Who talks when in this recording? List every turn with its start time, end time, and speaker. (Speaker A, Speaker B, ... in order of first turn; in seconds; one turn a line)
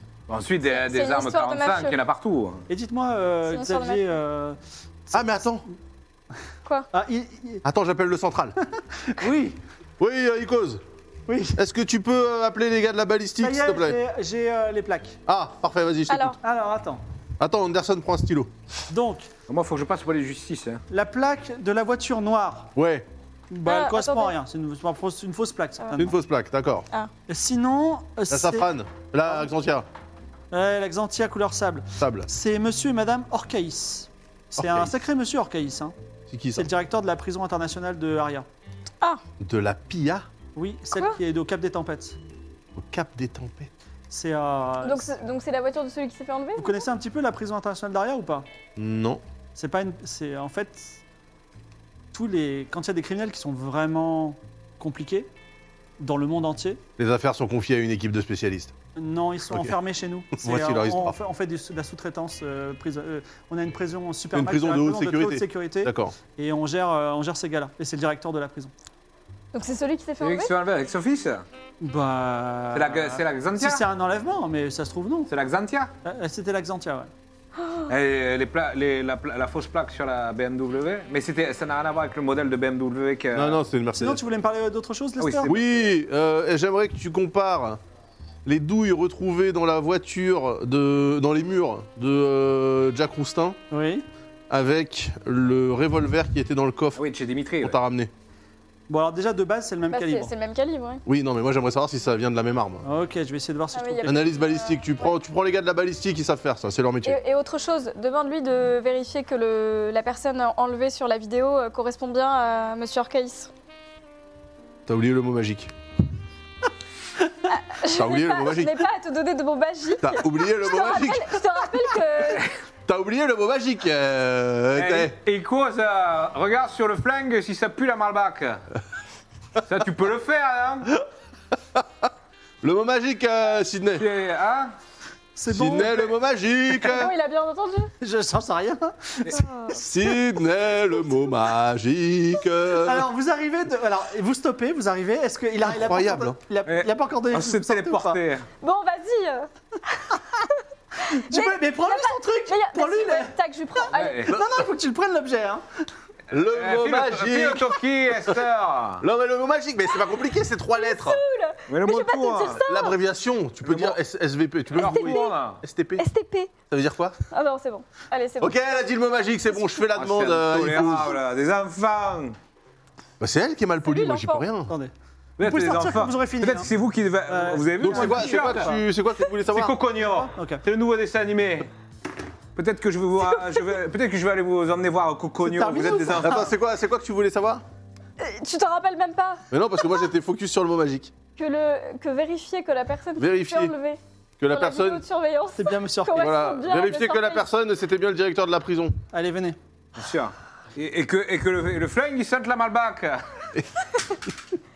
Speaker A: 0.3-2.6
Speaker B: 0.7-2.0
Speaker C: 2.7-5.6
Speaker B: 3.5-4.0
Speaker D: 5.1-5.6
Speaker C: 6.9-7.6
Speaker D: 7.6-8.6
Speaker C: 9.0-9.6
Speaker D: 10.0-10.8
Speaker C: 11.3-11.6
Speaker D: 11.6-14.0
Speaker C: 13.4-15.2
Speaker D: 15.3-16.4
Speaker B: 16.1-16.4
Speaker C: 16.4-17.0
Speaker D: 17.4-18.5
Speaker C: 18.9-19.3
Speaker A: 19.5-20.8
Speaker C: 20.9-22.7
Speaker D: 22.8-23.1
Speaker C: 23.5-26.2
Speaker B: 23.7-24.4
Speaker D: 26.0-26.9
Speaker C: 27.3-28.7
Speaker D: 28.3-29.9
Speaker C: 30.5-36.0
Speaker D: 32.0-32.3
Speaker D: 34.6-34.9
Speaker D: 36.3-36.7
Speaker C: 36.6-38.5
Speaker D: 39.4-40.3
Speaker C: 40.5-42.2
Speaker D: 42.8-43.7
Speaker C: 44.1-45.1
Speaker B: 44.8-46.9
Speaker C: 46.6-48.5
Speaker D: 48.8-49.2
Speaker C: 49.5-51.0
Speaker C: 52.1-55.3
Speaker C: 56.0-56.8
Speaker D: 57.0-58.7
Speaker C: 59.0-68.7
Speaker D: 59.5-59.8
Speaker D: 60.4-61.2
Speaker D: 64.3-66.2
Speaker B: 69.5-70.5
Speaker A: 70.2-71.5
Speaker C: 71.8-75.3
Speaker A: 72.7-73.8
Speaker A: 75.3-75.9
Speaker C: 76.0-77.1
Speaker B: 77.6-77.9
Speaker A: 77.9-83.6
Speaker D: 83.3-84.2
Speaker C: 84.0-85.6
Speaker A: 85.2-85.6
Speaker D: 85.5-87.8
Speaker D: 88.5-93.6
Speaker C: 93.7-94.1
Speaker D: 94.5-97.0
Speaker A: 97.0-97.8
Speaker D: 97.6-98.1
Speaker C: 98.9-100.3
Speaker B: 99.9-101.0
Speaker D: 101.1-102.8
Speaker C: 102.8-104.2
Speaker B: 103.7-105.1
Speaker D: 104.0-107.2
Speaker B: 107.0-113.5
Speaker D: 114.9-115.7
Speaker B: 117.5-122.5
Speaker D: 117.8-118.9
Speaker D: 120.0-121.4
Speaker D: 122.9-125.2
Speaker A: 124.8-128.6
Speaker A: 129.7-130.9
Speaker D: 131.7-132.1
Speaker D: 132.6-134.1
Speaker A: 134.0-134.7
Speaker C: 135.3-136.1
Speaker D: 135.5-137.1
Speaker B: 136.9-137.9
Speaker C: 138.0-140.2
Speaker D: 139.8-143.1
Speaker C: 142.7-148.2
Speaker D: 145.6-146.4
Speaker A: 146.7-148.5
Speaker B: 148.6-150.6
Speaker B: 151.1-154.3
Speaker C: 151.1-153.3
Speaker A: 153.9-154.3
Speaker C: 154.2-155.6
Speaker D: 154.3-154.7
Speaker D: 156.3-158.3
Speaker A: 156.5-159.0
Speaker D: 159.0-161.2
Speaker B: 160.7-162.9
Speaker A: 161.7-162.6
Speaker D: 162.7-166.0
Speaker A: 163.6-164.0
Speaker A: 164.7-165.6
Speaker B: 164.8-165.4
Speaker B: 166.0-166.5
Speaker D: 166.7-167.2
Speaker B: 167.3-168.6
Speaker D: 168.4-171.2
Speaker A: 169.9-172.4
Speaker D: 173.2-174.7
Speaker B: 173.8-174.5
Speaker C: 174.7-176.7
Speaker A: 175.4-178.7
Speaker C: 177.3-178.8
Speaker D: 177.8-179.8
Speaker A: 179.5-181.7
Speaker C: 180.0-180.6
Speaker A: 182.6-186.5
Speaker C: 185.4-186.5
Speaker D: 186.2-187.6
Speaker B: 188.2-189.4
Speaker D: 189.5-191.1
Speaker B: 191.4-194.0
Speaker D: 193.2-193.7
Speaker D: 194.4-195.0
Speaker B: 194.5-197.5
Speaker C: 195.6-196.3
Speaker D: 196.1-199.0
Speaker C: 199.1-199.6
Speaker A: 200.0-203.2